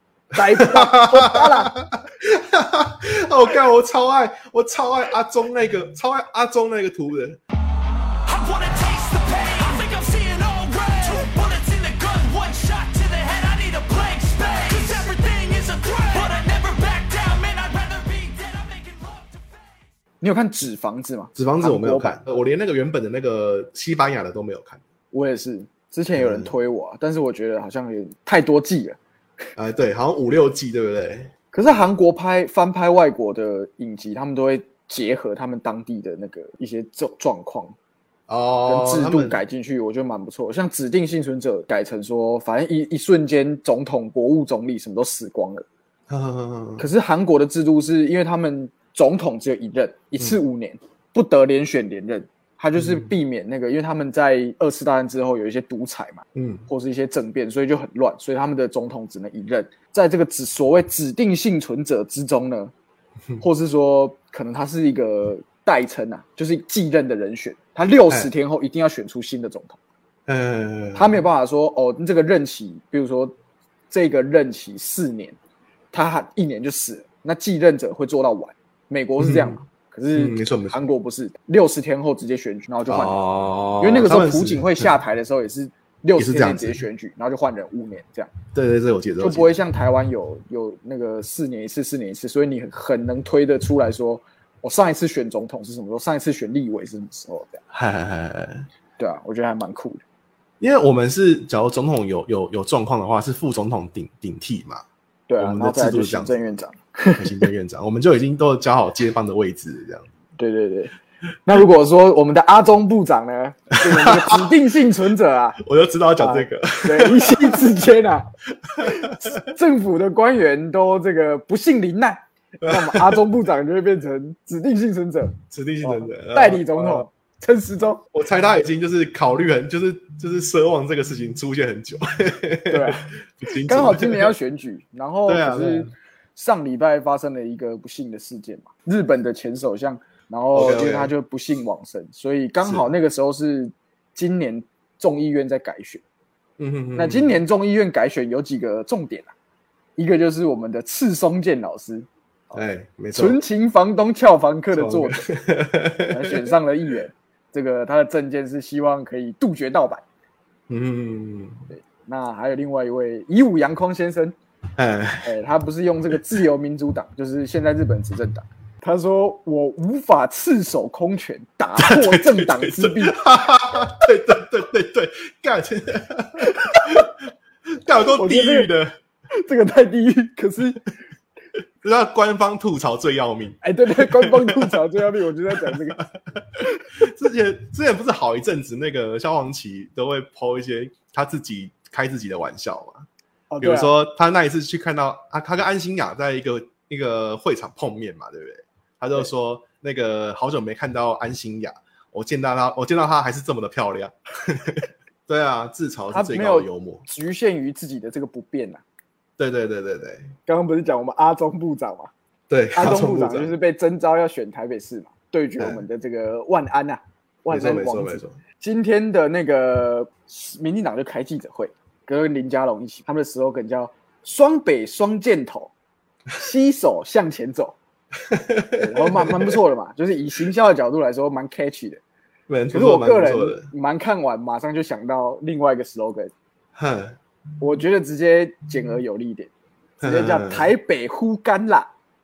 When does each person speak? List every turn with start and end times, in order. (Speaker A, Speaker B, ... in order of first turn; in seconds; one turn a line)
Speaker A: 0.3-1.7
Speaker B: 0.5-7.4
Speaker C: 8.2-19.4
Speaker A: 20.2-22.2
Speaker B: 21.4-24.8
Speaker A: 25.1-29.0
Speaker B: 26.1-26.5
Speaker B: 29.6-31.3
Speaker A: 31.5-37.8
Speaker B: 38.3-39.4
Speaker A: 38.7-45.6
Speaker B: 46.1-46.8
Speaker A: 46.8-62.7
Speaker B: 52.8-53.1
Speaker B: 56.4-56.6
Speaker A: 63.4-69.8
Speaker B: 70.3-71.2
Speaker A: 71.0-73.3
Speaker A: 73.9-75.4
Speaker A: 75.9-83.2
Speaker B: 79.2-79.6
Speaker B: 80.1-80.8
Speaker B: 82.9-84.9
Speaker A: 83.8-88.3
Speaker B: 86.2-86.8
Speaker B: 88.5-89.6
Speaker A: 89.2-97.6
Speaker B: 97.7-98.7
Speaker A: 99.0-100.0
Speaker B: 100.6-104.8
Speaker A: 105.3-107.5
Speaker B: 105.4-106.4
Speaker B: 107.2-110.1
Speaker A: 110.4-115.6
Speaker B: 113.8-114.6
Speaker B: 115.6-117.7
Speaker A: 116.2-118.3
Speaker B: 118.6-119.3
Speaker A: 118.8-128.0
Speaker B: 122.6-123.3
Speaker B: 125.5-127.1
Speaker B: 128.1-134.3
Speaker A: 132.7-146.0
Speaker B: 135.3-135.9
Speaker B: 140.5-141.1
Speaker B: 142.6-142.9
Speaker B: 146.6-147.4
Speaker A: 147.0-149.3
Speaker A: 150.0-152.6
Speaker B: 152.5-153.4
Speaker A: 153.1-155.3
Speaker B: 154.7-156.5
Speaker A: 156.1-160.0
Speaker B: 160.7-161.6
Speaker A: 161.7-164.4
Speaker B: 164.8-165.3
Speaker A: 165.2-173.2
Speaker B: 171.8-177.1
Speaker A: 176.4-177.1
Speaker B: 177.8-178.9
Speaker A: 178.1-178.7
Speaker A: 179.3-180.9
Speaker B: 181.8-184.8
Speaker A: 183.6-186.0
Speaker B: 185.6-193.1
Speaker A: 193.5-193.9
Speaker B: 193.6-207.0
Speaker A: 206.1-208.8
Speaker B: 209.4-210.3
Speaker A: 210.5-212.1
Speaker B: 212.5-213.5
Speaker A: 212.8-225.7
Speaker B: 217.5-218.3
Speaker A: 226.3-227.8
Speaker B: 228.2-229.6
Speaker A: 228.7-232.0
Speaker B: 232.5-233.7
Speaker A: 232.7-236.3
Speaker B: 236.8-237.2
Speaker A: 237.6-241.9
Speaker B: 240.0-240.7